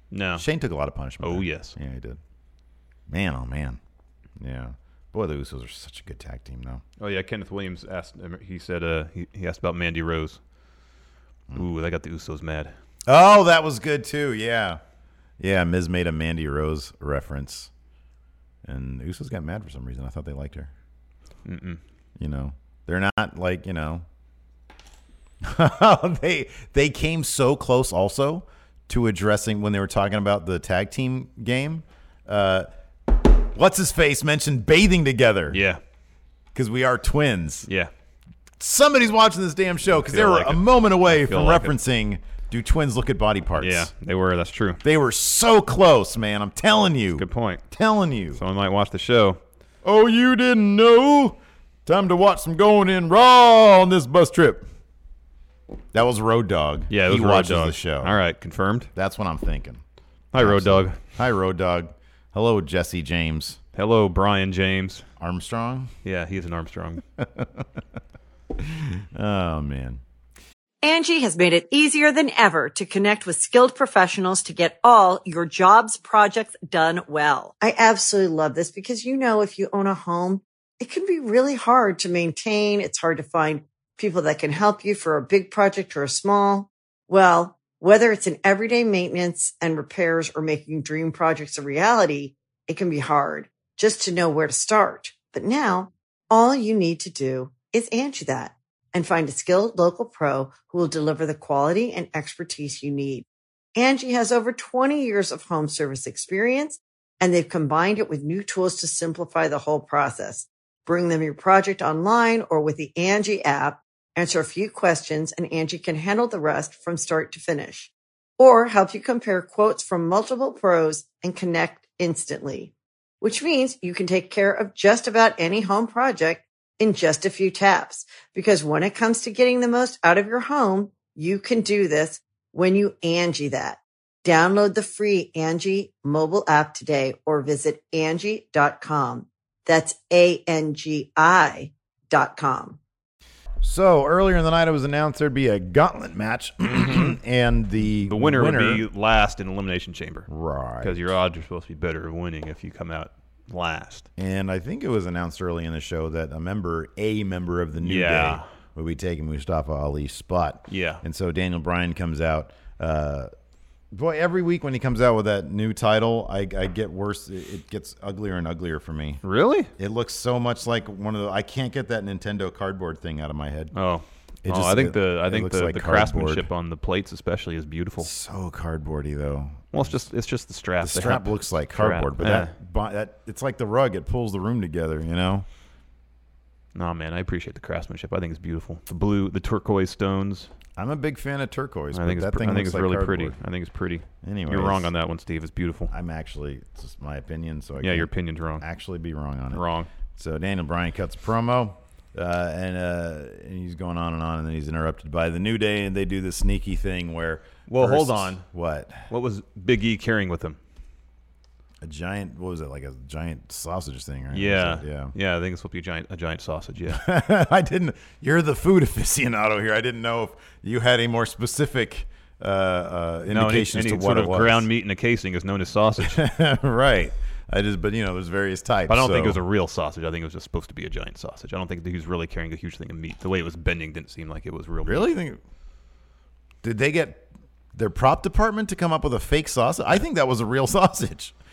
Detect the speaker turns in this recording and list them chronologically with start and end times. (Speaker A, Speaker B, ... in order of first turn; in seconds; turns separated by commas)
Speaker A: 0.1-0.5, Speaker B: 0.3-2.2, Speaker A: 1.2-1.7, Speaker B: 3.1-3.8, Speaker B: 4.4-6.8, Speaker A: 7.0-10.4, Speaker A: 11.5-12.7, Speaker B: 13.1-14.8, Speaker B: 15.4-17.7, Speaker B: 18.6-20.7, Speaker A: 21.4-21.8, Speaker B: 22.2-24.0, Speaker B: 25.4-35.6, Speaker A: 35.5-35.8, Speaker B: 36.5-37.7, Speaker B: 38.6-43.9, Speaker A: 40.1-41.7, Speaker A: 43.6-44.8, Speaker B: 44.8-48.4, Speaker A: 47.2-47.6, Speaker A: 48.3-49.4, Speaker B: 49.8-54.7, Speaker B: 55.9-58.2, Speaker A: 56.9-58.9, Speaker B: 58.9-59.8, Speaker A: 60.3-61.0, Speaker B: 60.3-63.6, Speaker A: 63.7-65.0, Speaker B: 65.2-65.9, Speaker A: 66.0-67.0, Speaker B: 67.2-67.6, Speaker B: 68.5-70.0, Speaker C: 70.8-142.8, Speaker B: 143.6-148.8, Speaker A: 146.7-147.2, Speaker A: 147.9-150.3, Speaker B: 150.3-151.1, Speaker A: 150.8-154.1, Speaker B: 154.2-163.3, Speaker A: 157.8-158.5, Speaker A: 160.7-161.0, Speaker B: 163.9-169.2, Speaker A: 169.2-169.7, Speaker B: 169.8-173.7, Speaker A: 173.7-178.1, Speaker B: 174.4-176.5, Speaker B: 178.0-179.9, Speaker A: 179.7-182.5, Speaker B: 180.8-185.4, Speaker A: 186.7-190.5, Speaker B: 190.8-193.3, Speaker A: 191.9-195.9, Speaker B: 194.2-194.9, Speaker B: 195.9-199.6, Speaker A: 197.8-198.6, Speaker A: 199.5-199.9, Speaker B: 200.2-209.0, Speaker A: 207.7-208.4, Speaker A: 209.1-210.6, Speaker B: 211.8-215.1, Speaker A: 214.3-217.0, Speaker B: 216.9-224.7, Speaker A: 223.3-226.2, Speaker B: 226.0-229.4, Speaker A: 228.9-235.1, Speaker B: 234.8-235.4, Speaker B: 236.6-241.3